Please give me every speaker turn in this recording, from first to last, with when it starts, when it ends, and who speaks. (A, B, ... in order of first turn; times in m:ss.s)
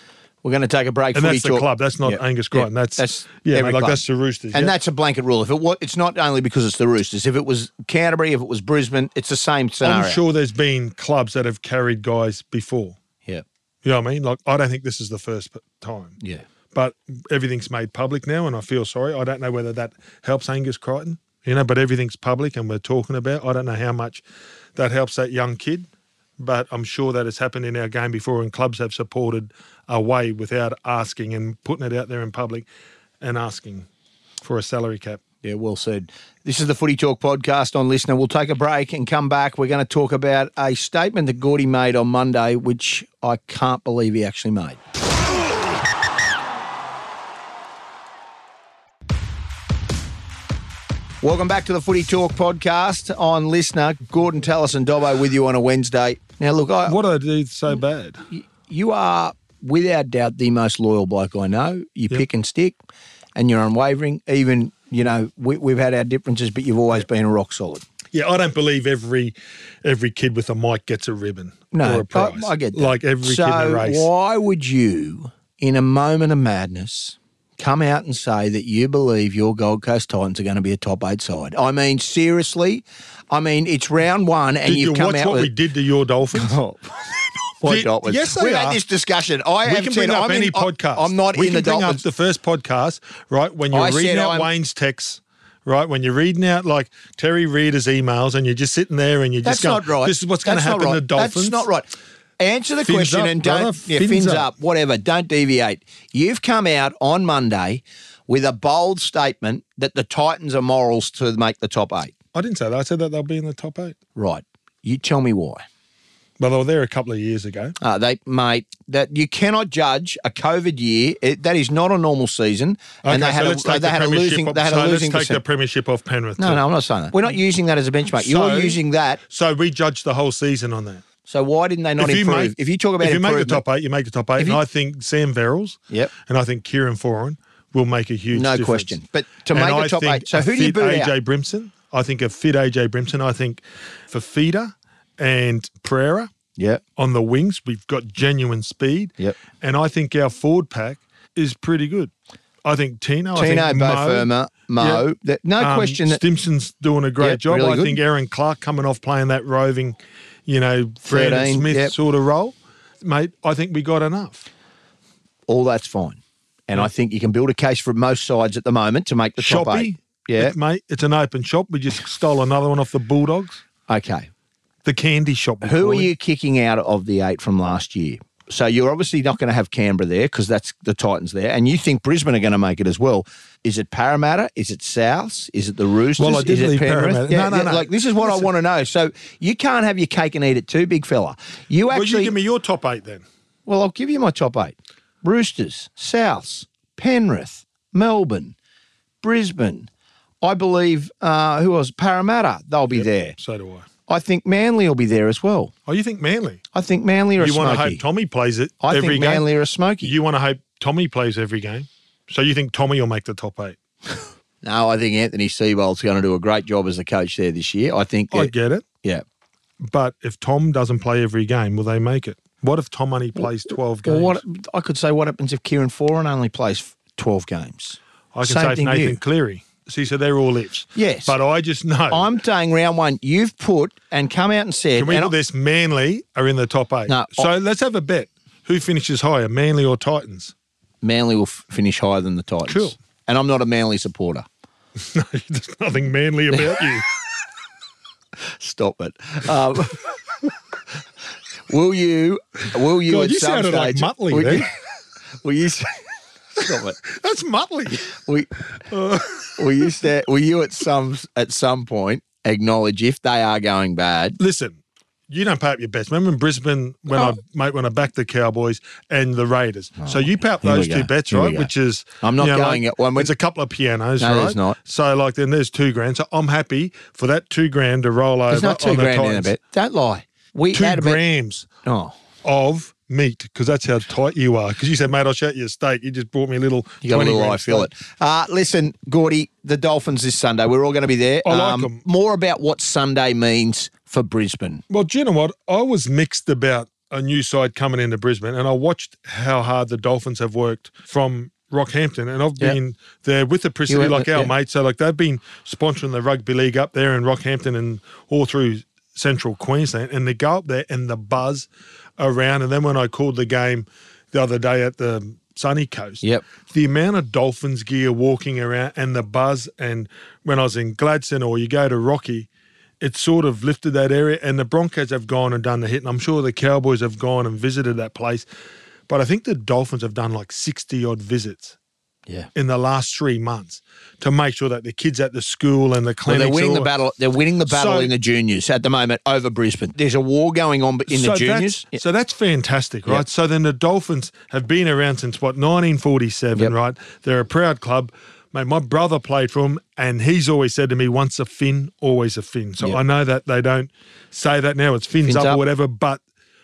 0:00.4-0:04.0 A
0:01.1-0:04.7 B
0:04.5-0:10.2 A
0:09.8-0:13.0 B
0:13.8-0:16.2 B
0:16.2-0:16.4 A
0:16.7-0:24.2 B
0:24.7-0:25.9 B
0:26.4-0:32.7 B
0:33.2-0:33.9 B
0:34.4-0:35.2 B
0:35.4-0:44.8 A
0:51.2-0:57.0 A
0:56.9-0:58.2 B
0:58.3-1:02.7 A
1:03.4-1:07.8 A
1:08.1-1:14.1 B
1:11.7-1:25.5 A
1:24.6-1:26.6 B
1:26.3-1:32.0 A
1:27.6-1:28.8 B
1:29.6-1:41.7 B
1:33.7-1:34.5 A
1:39.4-1:52.1 A
1:42.8-1:44.5 B
1:52.3-1:54.0 B
1:54.2-1:55.6 A
1:56.4-1:57.8 B
1:57.8-2:05.4 A
2:03.0-2:06.6 B
2:06.4-2:09.2 A
2:08.1-2:11.0 B
2:11.3-2:13.6 A
2:12.0-2:19.0 B
2:18.3-2:21.1 A
2:19.5-2:26.3 B
2:26.6-2:26.8 A
2:27.0-2:32.1 B
2:32.6-2:35.1 B
2:33.4-2:36.2 A
2:35.6-2:44.5 B
2:37.2-2:38.0 A
2:41.1-2:41.9 A
2:45.5-2:50.6 A
2:49.4-2:53.6 B
2:53.9-2:54.3 A
2:54.8-2:56.1 B
2:55.6-3:12.3 A
3:06.2-3:08.5 B
3:11.9-3:13.2 B
3:13.6-3:18.6 A
3:19.2-3:19.9 A
3:20.4-3:23.4 A
3:22.9-3:23.9 B
3:24.1-3:25.7 A
3:25.9-3:26.6 B
3:26.7-3:28.0 A
3:27.4-3:29.4 B
3:28.8-3:30.1 A
3:30.0-3:33.8 B
3:34.6-3:39.2 A
3:38.3-3:38.8 B
3:39.8-3:44.4 B
3:44.0-3:49.2 A
3:48.3-3:52.3 B
3:50.9-3:51.4 A
3:52.1-3:55.3 A
3:55.0-4:00.5 B
3:57.1-3:57.5 A
4:01.0-4:04.4 A
4:02.7-4:02.9 B
4:05.0-4:07.0 B
4:06.5-4:06.8 A
4:08.4-4:10.1 A
4:11.7-4:14.7 A
4:13.0-4:14.7 B
4:15.4-4:16.0 A
4:16.6-4:17.0 A
4:17.0-4:18.1 B
4:17.9-4:18.5 A
4:18.9-4:19.8 B
4:19.6-4:24.4 A
4:24.4-4:39.5 B
4:27.1-4:27.4 A
4:30.0-4:31.7 A
4:32.2-4:33.3 A
4:34.2-4:34.8 A
4:38.5-4:41.2 A
4:40.7-4:41.7 B
4:41.8-4:42.1 A
4:42.4-4:47.9 B
4:47.0-4:54.8 A
4:51.4-4:52.0 B
4:54.9-5:22.5 B
5:03.9-5:04.5 A
5:23.0-5:28.4 B
5:29.1-5:31.8 B
5:32.6-5:36.9 B
5:36.3-5:42.0 A
5:37.7-5:38.1 B
5:41.1-5:56.2 B
5:55.2-5:55.6 A